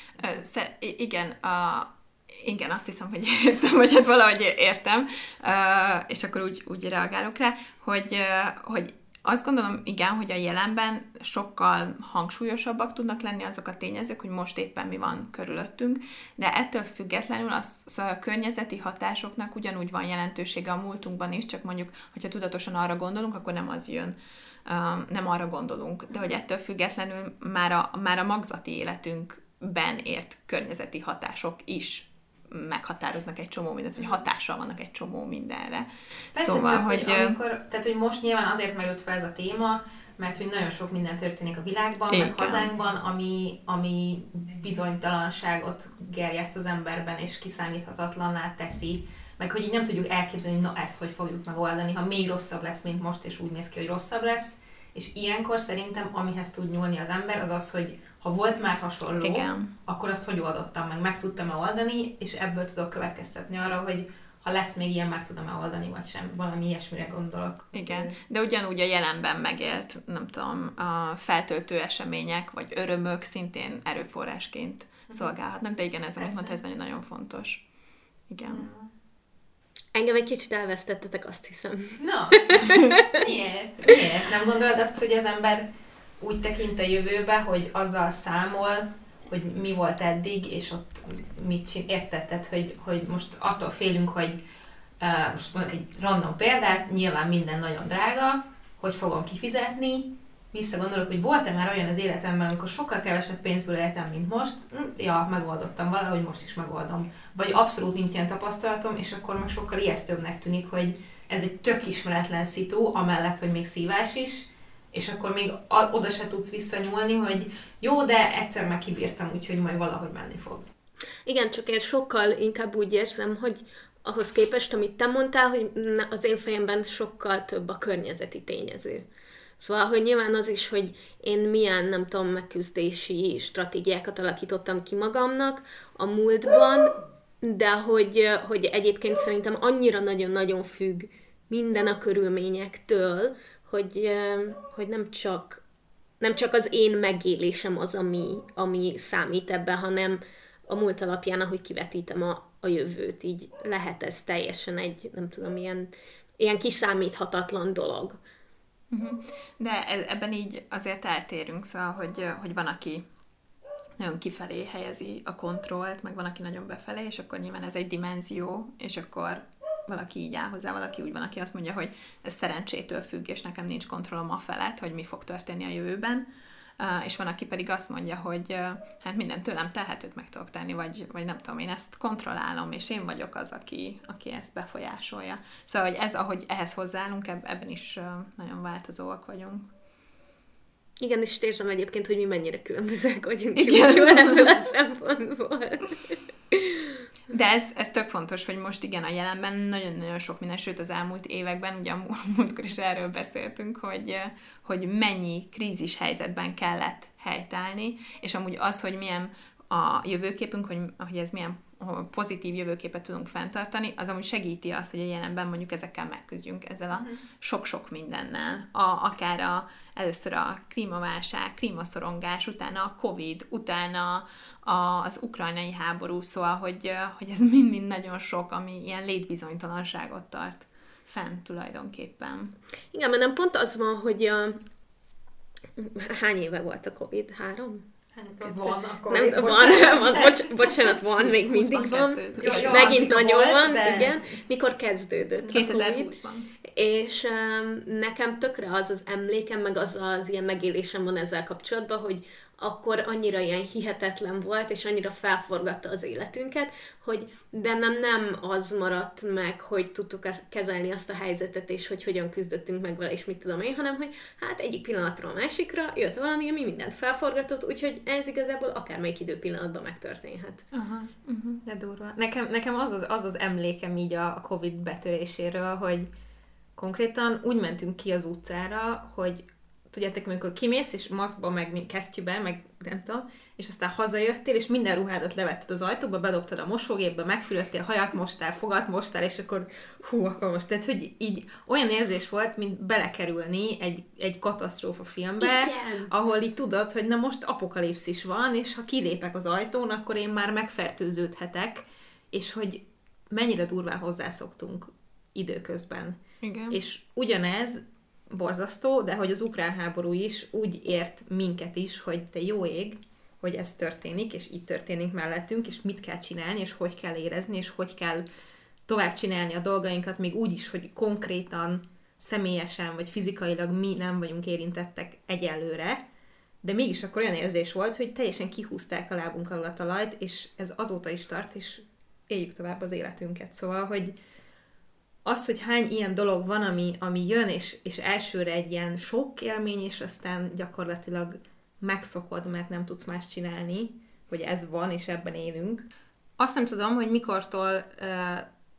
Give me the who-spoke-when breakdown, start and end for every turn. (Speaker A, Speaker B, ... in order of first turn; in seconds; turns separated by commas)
Speaker A: 0.2-37.4, Speaker B: 36.3-68.2, Speaker A: 42.1-42.6, Speaker A: 59.2-59.7, Speaker A: 67.7-77.6, Speaker B: 75.1-75.3, Speaker B: 76.2-76.6, Speaker A: 78.3-78.7, Speaker B: 78.4-78.9, Speaker C: 79.9-83.1, Speaker B: 82.0-85.7, Speaker B: 86.2-94.4, Speaker B: 95.0-120.7, Speaker C: 121.2-129.1, Speaker C: 129.6-145.6, Speaker C: 146.2-158.2, Speaker A: 158.9-163.0, Speaker A: 164.0-176.3, Speaker A: 176.8-189.7, Speaker C: 191.0-197.0, Speaker A: 193.6-194.6, Speaker A: 197.3-232.5, Speaker C: 232.9-234.6, Speaker C: 235.8-237.9, Speaker B: 238.1-240.5, Speaker C: 238.4-246.1, Speaker A: 241.2-242.9, Speaker B: 242.4-244.3, Speaker A: 245.5-246.5, Speaker C: 246.6-270.6, Speaker B: 270.7-276.1, Speaker B: 276.8-318.2, Speaker C: 295.4-296.1, Speaker A: 306.4-306.8, Speaker B: 318.9-326.0, Speaker B: 326.6-334.1, Speaker B: 335.2-345.8, Speaker B: 346.4-348.5